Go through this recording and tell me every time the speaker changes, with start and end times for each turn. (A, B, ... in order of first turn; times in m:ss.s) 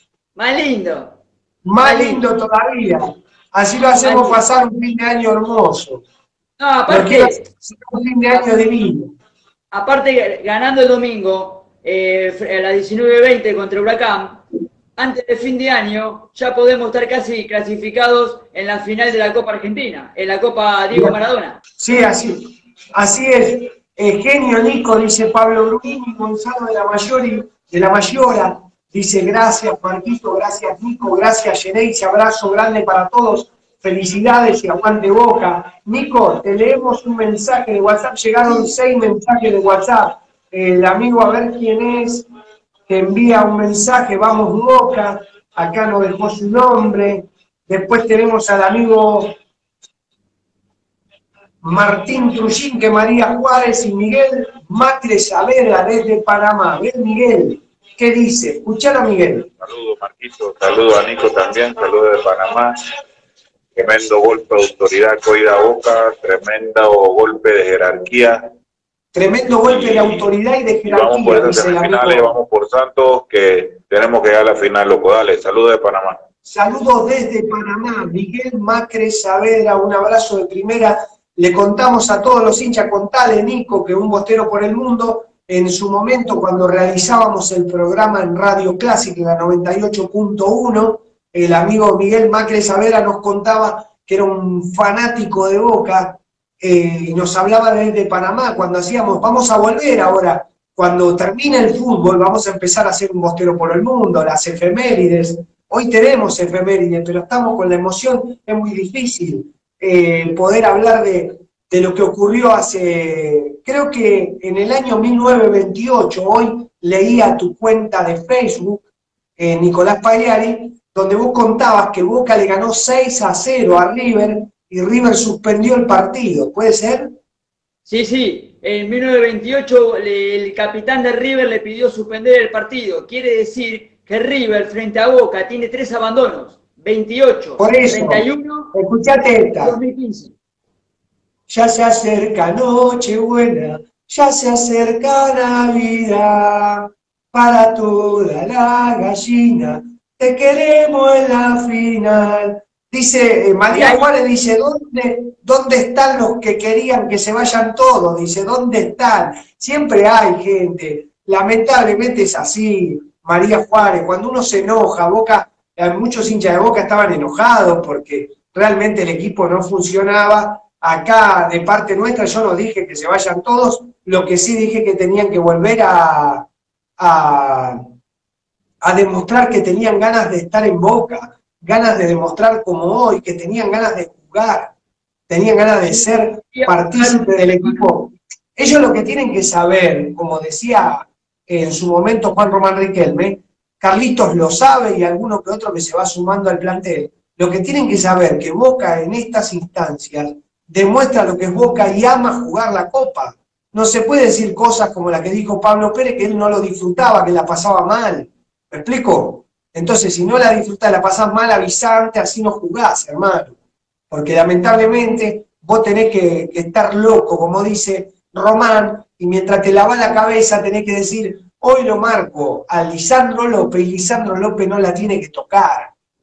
0:00.4-0:01.2 A
0:01.7-0:06.0 B
0:01.8-0:02.2 A
0:04.0-0:04.4 A
0:06.6-0:07.4 A
0:06.9-0:09.1 B
0:09.7-0:14.4 A
0:15.0-0:21.6 A
0:21.8-0:42.2 B
0:42.9-0:49.3 B
0:51.6-0:59.5 B
0:59.6-1:02.7 C
1:03.8-1:08.4 C
1:09.1-1:12.3 B
1:09.6-1:10.3 C
1:10.9-1:16.2 C
1:16.4-1:58.8 B
1:59.4-2:07.1 B
2:07.9-2:18.7 A
2:17.6-2:19.8 B
2:19.6-2:20.3 A
2:21.5-2:56.5 B
2:33.7-2:34.1 A
2:57.0-2:57.8 B
2:58.8-3:04.7 B
3:05.3-3:33.6 B
3:05.9-3:07.8 A
3:34.1-3:45.9 B